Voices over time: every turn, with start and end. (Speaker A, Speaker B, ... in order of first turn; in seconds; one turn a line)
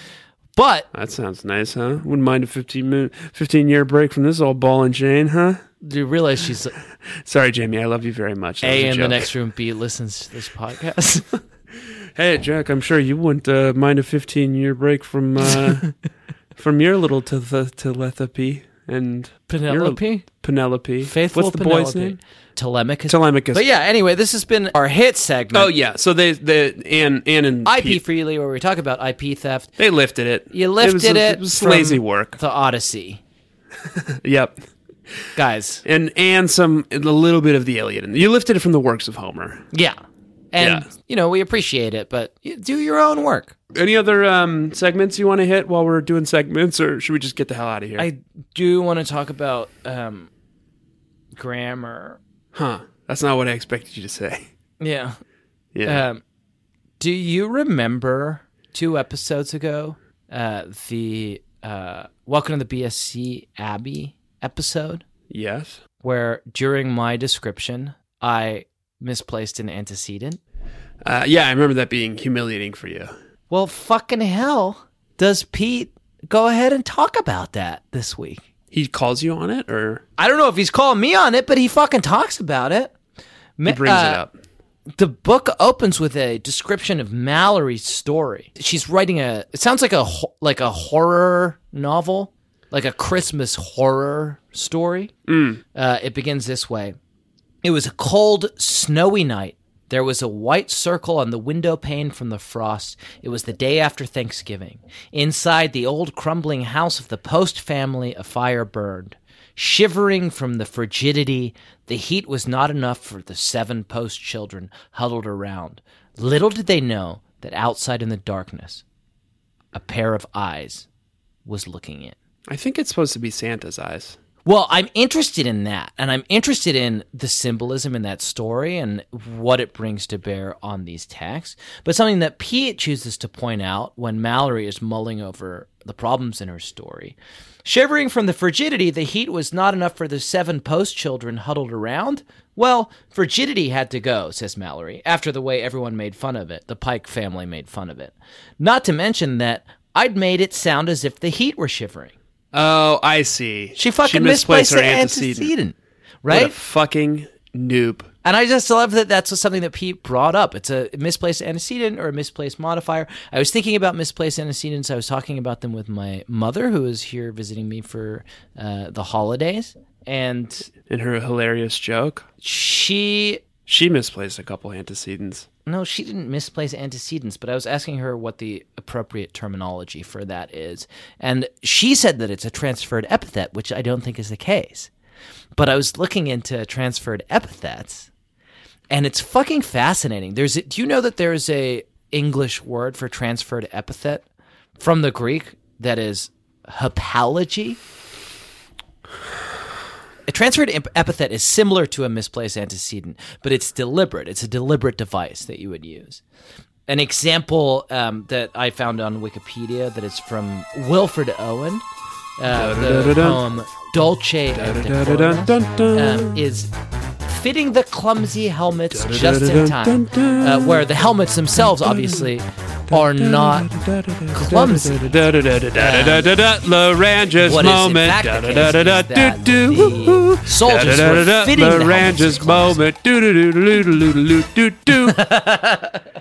Speaker A: 0.6-0.9
Speaker B: 0.9-5.6
Speaker A: 5.8-6.8
Speaker B: 7.2-9.3
Speaker A: 8.6-11.3
Speaker B: 12.2-15.9
Speaker B: 16.6-22.2
Speaker A: 19.5-20.3
Speaker A: 21.0-25.7
Speaker B: 23.1-23.6
Speaker B: 25.5-28.0
Speaker A: 27.6-29.7
Speaker B: 29.8-32.4
Speaker A: 30.5-33.2
Speaker B: 34.2-34.6
Speaker A: 35.4-35.8
Speaker B: 35.8-39.6
Speaker A: 39.7-40.0
Speaker A: 40.5-43.5
Speaker B: 40.6-40.9
Speaker B: 43.7-48.1
Speaker A: 48.0-50.3
Speaker A: 51.3-52.2
Speaker B: 52.5-54.5
Speaker A: 54.8-55.2
Speaker B: 55.7-56.0
Speaker A: 55.8-56.2
Speaker A: 57.0-65.0
Speaker B: 65.3-65.8
Speaker A: 66.0-70.4
Speaker B: 71.0-73.1
Speaker A: 73.5-78.4
Speaker B: 78.7-80.0
Speaker A: 80.2-82.9
Speaker A: 83.6-84.2
Speaker B: 83.6-84.3
Speaker A: 84.9-95.1
Speaker B: 95.3-95.6
Speaker A: 95.7-97.0
Speaker A: 97.6-118.8
Speaker A: 119.7-120.8
Speaker A: 121.4-122.2
Speaker B: 122.5-124.2
Speaker A: 124.4-152.1
Speaker B: 152.5-155.5
Speaker A: 153.8-156.5
Speaker B: 156.3-158.1
Speaker A: 158.2-170.7
Speaker B: 170.9-172.2
Speaker A: 172.4-173.4
Speaker B: 173.7-175.5
Speaker A: 175.7-184.9
Speaker A: 185.6-188.1
Speaker A: 188.9-194.2
Speaker A: 194.8-197.8
Speaker A: 200.3-206.2
Speaker A: 206.9-211.8
Speaker A: 212.4-216.7
Speaker B: 212.5-213.4
Speaker B: 214.5-216.4
Speaker A: 217.2-223.7
Speaker B: 218.9-220.8
Speaker B: 221.6-222.3
Speaker B: 222.9-235.2
Speaker A: 224.3-225.1
Speaker A: 225.7-226.3
Speaker A: 227.4-232.8
Speaker A: 235.0-236.0